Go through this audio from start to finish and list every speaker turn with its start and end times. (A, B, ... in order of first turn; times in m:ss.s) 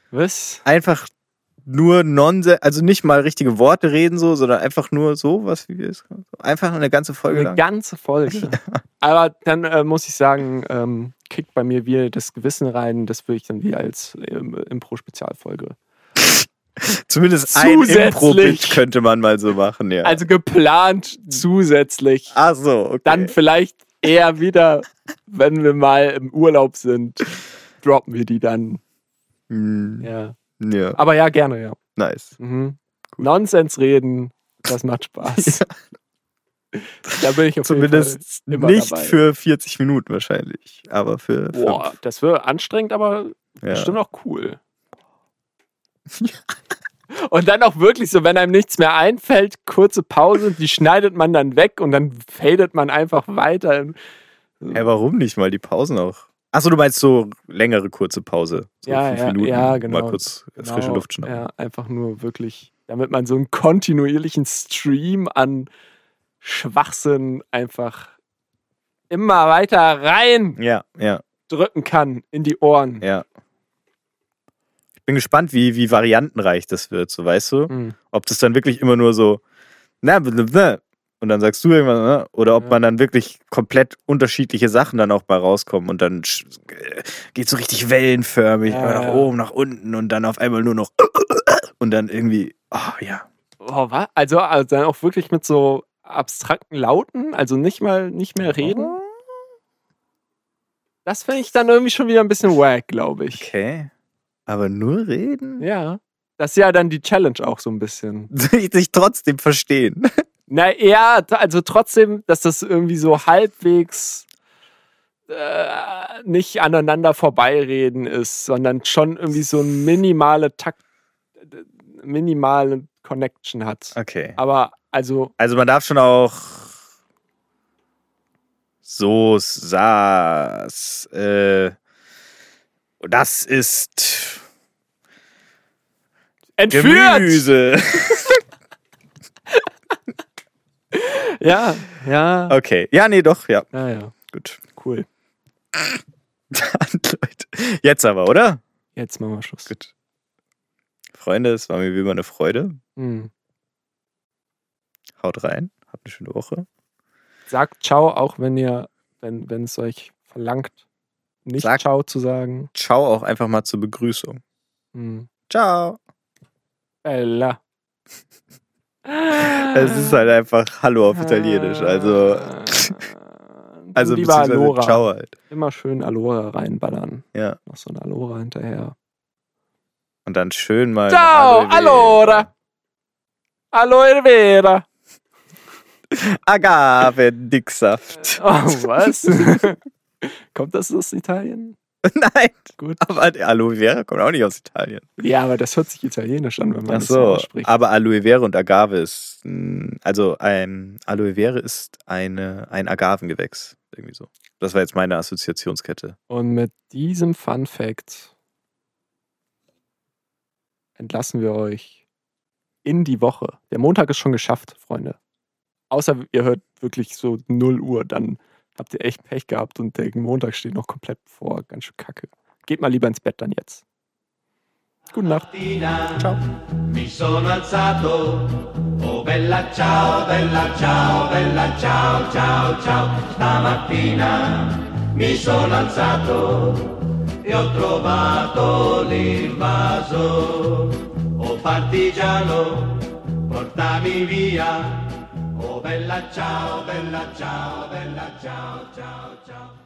0:00.1-0:00.6 A
0:00.6-0:01.1 B
0:01.7-0:07.6 B
0:07.3-0:15.8 A
0:08.3-0:08.8 B
0:16.2-0:20.2 B
0:17.5-0:18.8 A
0:20.0-0:22.4 A
0:22.3-0:23.3 B
0:23.0-0:28.8 A
0:29.5-0:30.1 B
0:30.0-0:30.4 A
0:30.6-0:31.0 B
0:31.0-0:31.8 A
0:32.0-0:32.4 B
0:32.4-0:35.6 A
0:35.4-0:35.7 B
0:36.7-0:39.2 A
0:37.1-0:41.9 B
0:41.5-0:44.6 A
0:43.6-0:44.0 B
0:46.1-0:46.4 B
0:47.1-0:54.0 A
0:54.6-0:54.9 A
0:54.7-1:01.5 B
0:58.9-1:05.7 A
1:06.4-1:08.1 A
1:09.1-1:10.6 A
1:10.6-1:11.2 B
1:11.5-1:13.1 A
1:15.0-1:19.4 B
1:17.7-1:18.0 A
1:20.0-1:33.3 B
1:28.7-1:29.3 A
1:33.6-1:39.0 A
1:38.4-1:39.1 B
1:41.1-1:43.5 A
1:43.4-1:43.9 B
1:44.5-1:45.6 B
1:45.6-1:48.3 A
1:48.3-1:50.2 B
1:50.5-1:54.2 A
1:55.3-2:00.8 A
2:01.5-2:05.3 A
2:04.0-2:04.4 B
2:05.4-2:06.8 B
2:08.8-2:11.8 B
2:13.0-2:14.4 B
2:16.6-2:17.5 A
2:16.7-2:18.4 B
2:20.9-2:22.6 A
2:22.5-2:23.7 B
2:23.7-2:24.1 A
2:24.3-2:24.6 B
2:24.8-2:25.1 A
2:26.5-2:28.6 B
2:29.0-2:29.7 A
2:31.1-2:32.8 B
2:33.0-2:33.3 A
2:35.2-2:36.7 B
2:37.5-2:40.8 A
2:41.4-2:42.7 A
2:42.8-2:44.4 B
2:44.9-2:45.3 A
2:45.5-2:46.0 B
2:47.0-2:47.6 A
2:49.1-2:50.2 A
2:49.3-2:53.0 B
2:51.1-2:53.2 A
2:53.8-2:59.0 A
2:54.0-2:55.3 B
3:00.3-3:02.5 B
3:01.1-3:02.5 A
3:03.7-3:04.8 A
3:06.1-3:09.7 B
3:08.2-3:11.8 A
3:12.0-3:15.1 B
3:12.8-3:13.2 A
3:15.2-3:17.7 A
3:16.9-3:26.2 B
3:26.3-3:28.3 A
3:31.0-3:32.0 A
3:32.8-3:35.2 A
3:35.9-3:43.8 A
3:45.1-3:45.8 A
3:46.1-3:46.4 B
3:47.7-3:48.1 C
3:49.3-3:49.6 C
3:50.3-3:50.6 C
3:55.4-3:56.2 C
3:55.6-3:56.0 B
3:57.9-3:58.6 B
3:59.5-4:00.7 B
4:01.9-4:02.7 B
4:04.1-4:04.6 B
4:06.3-4:06.8 B